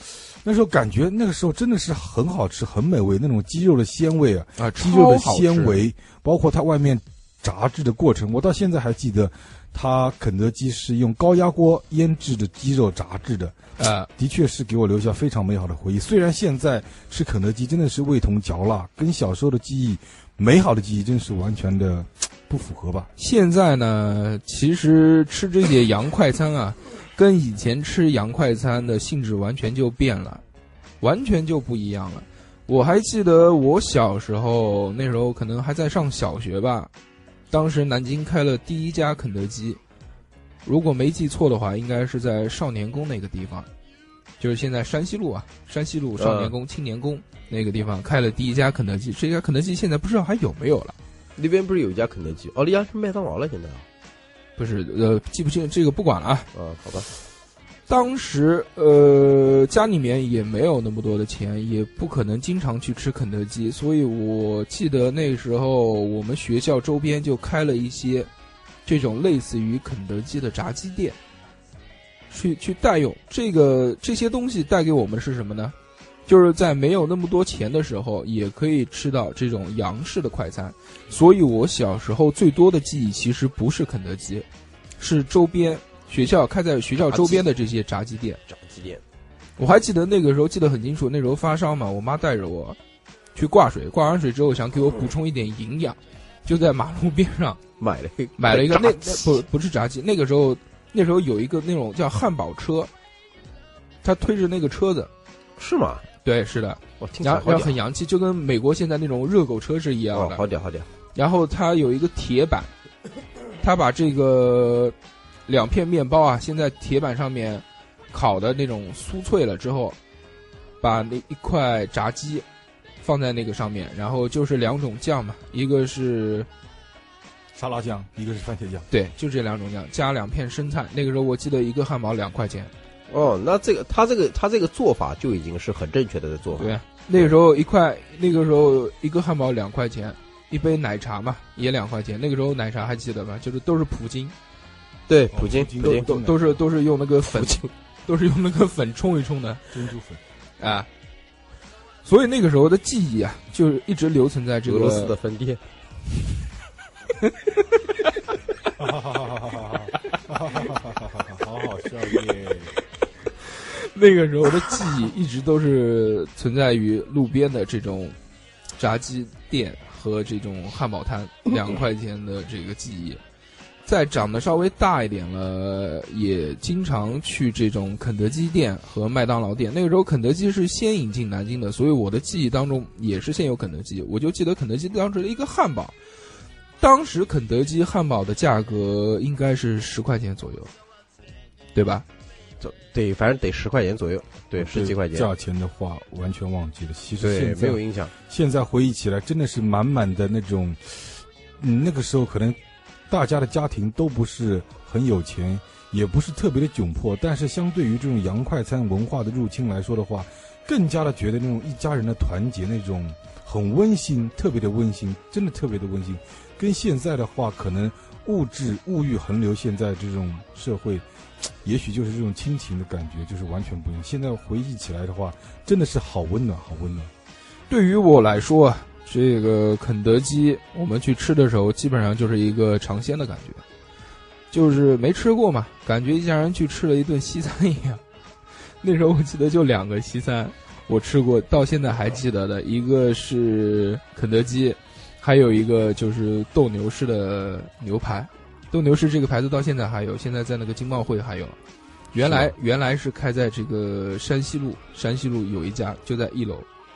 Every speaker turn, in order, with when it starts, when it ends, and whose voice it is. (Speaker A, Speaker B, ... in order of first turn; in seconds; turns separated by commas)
Speaker A: 0.2-13.5, Speaker B: 4.6-5.9, Speaker B: 13.8-14.1, Speaker A: 14.1-23.1, Speaker B: 23.2-30.4, Speaker B: 31.0-36.9, Speaker B: 37.5-39.8, Speaker B: 40.6-43.7, Speaker B: 44.4-50.9, Speaker C: 46.2-46.5, Speaker C: 51.4-53.8, Speaker B: 54.6-56.5, Speaker C: 56.5-57.1, Speaker B: 57.9-68.3, Speaker B: 68.8-71.2, Speaker B: 72.3-75.7, Speaker B: 76.3-84.5, Speaker B: 85.0-88.4, Speaker C: 87.0-87.5, Speaker C: 88.5-89.0, Speaker B: 89.6-92.8, Speaker B: 93.3-97.6, Speaker C: 97.8-99.4, Speaker B: 98.4-102.9, Speaker B: 104.0-105.1, Speaker C: 105.6-106.0, Speaker B: 106.2-110.4, Speaker C: 107.0-107.8, Speaker C: 110.1-110.9, Speaker B: 111.1-112.7, Speaker B: 113.6-114.9, Speaker B: 115.5-120.0, Speaker B: 120.8-122.4, Speaker B: 123.0-126.5, Speaker A: 127.5-128.9, Speaker B: 128.9-132.7, Speaker C: 133.1-137.3, Speaker B: 136.5-144.3, Speaker C: 145.1-146.1, Speaker A: 145.3-146.5, Speaker B: 145.8-149.6, Speaker C: 147.2-147.7, Speaker A: 149.7-150.2, Speaker B: 150.6-150.9, Speaker B: 152.0-155.1, Speaker C: 154.6-155.6, Speaker A: 158.8-162.7, Speaker B: 163.6-168.2, Speaker B: 168.8-173.2, Speaker B: 173.8-185.9, Speaker B: 186.8-190.7, Speaker B: 191.7-192.0, Speaker C: 192.6-195.3, Speaker A: 194.6-227.1, Speaker C: 197.2-198.1, Speaker B: 227.7-233.6, Speaker B: 234.5-238.0, Speaker B: 238.8-251.6, Speaker B: 252.1-256.7